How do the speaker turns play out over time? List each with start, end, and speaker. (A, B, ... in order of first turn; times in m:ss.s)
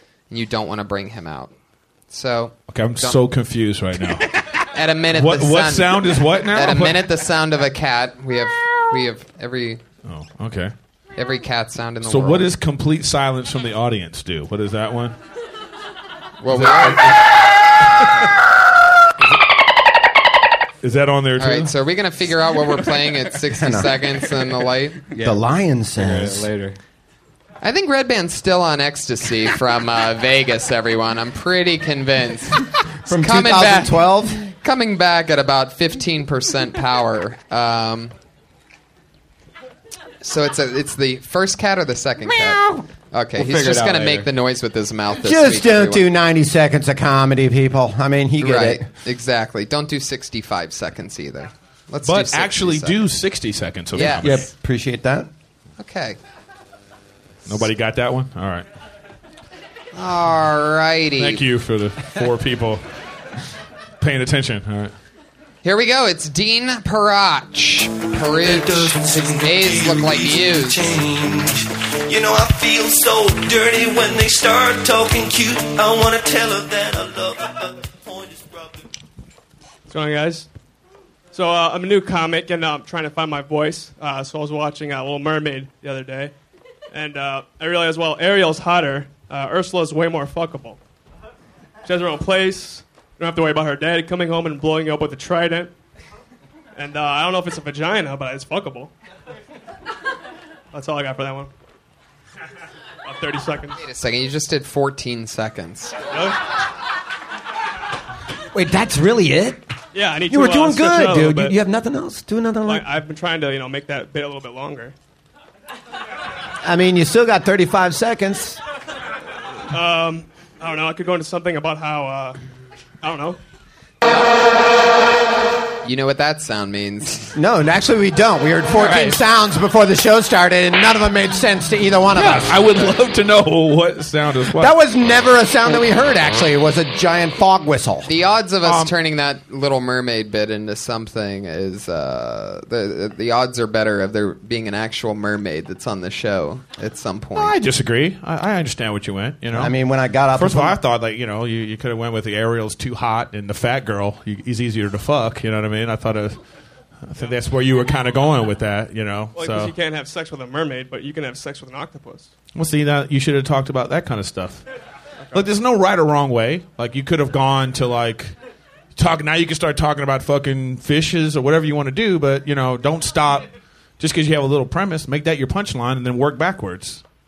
0:00.3-0:01.5 A
0:02.1-0:03.2 A
0:02.7-0:04.4 B
0:04.7-0:09.8 A
0:05.1-0:07.0 B
0:10.0-0:10.7 B
0:11.1-0:12.5 A
0:12.0-0:15.2 B
0:16.4-0:17.1 A
0:16.5-0:17.2 B
0:20.8-0:21.7 B
0:21.4-0:25.0 A
0:23.5-0:23.9 C
0:25.1-0:26.8 D
0:25.2-0:26.5 C
0:27.6-0:38.1 A
0:33.0-0:34.4 C
0:40.2-0:46.0 A
0:43.3-0:44.3 D
0:45.2-0:48.9 C
0:48.4-0:53.0 A
0:52.0-0:54.4 B
0:53.9-0:54.4 A
0:54.1-0:55.3 C
0:55.8-0:56.2 A
0:57.4-0:58.6 B
0:59.9-1:01.4 A
1:01.2-1:02.8 B
1:04.0-1:04.9 B
1:05.6-1:11.0 A
1:08.3-1:18.8 E
1:19.9-1:20.5 F
1:21.3-1:26.3 F
1:26.9-1:30.8 F
1:31.8-1:35.7 F
1:36.8-1:38.9 F
1:40.7-1:41.5 F
1:43.0-1:43.8 F
1:43.8-1:46.0 A
1:46.1-1:46.4 F
1:48.5-1:49.6 C
1:49.9-1:51.6 F
1:50.3-1:52.9 C
1:52.6-1:54.9 F
1:56.6-1:58.6 C
1:59.7-2:02.4 F
2:03.0-2:03.4 F
2:05.8-2:07.3 A
2:07.3-2:12.6 C
2:12.1-2:14.7 B
2:14.6-2:18.1 C
2:18.0-2:27.6 A
2:18.6-2:18.9 B
2:27.3-2:29.7 B
2:29.5-2:30.8 C
2:30.3-2:36.4 B
2:37.0-2:39.7 B
2:39.4-2:42.3 F
2:42.5-2:44.6 B
2:45.3-2:48.3 B
2:49.0-2:53.5 B
2:54.0-2:57.0 B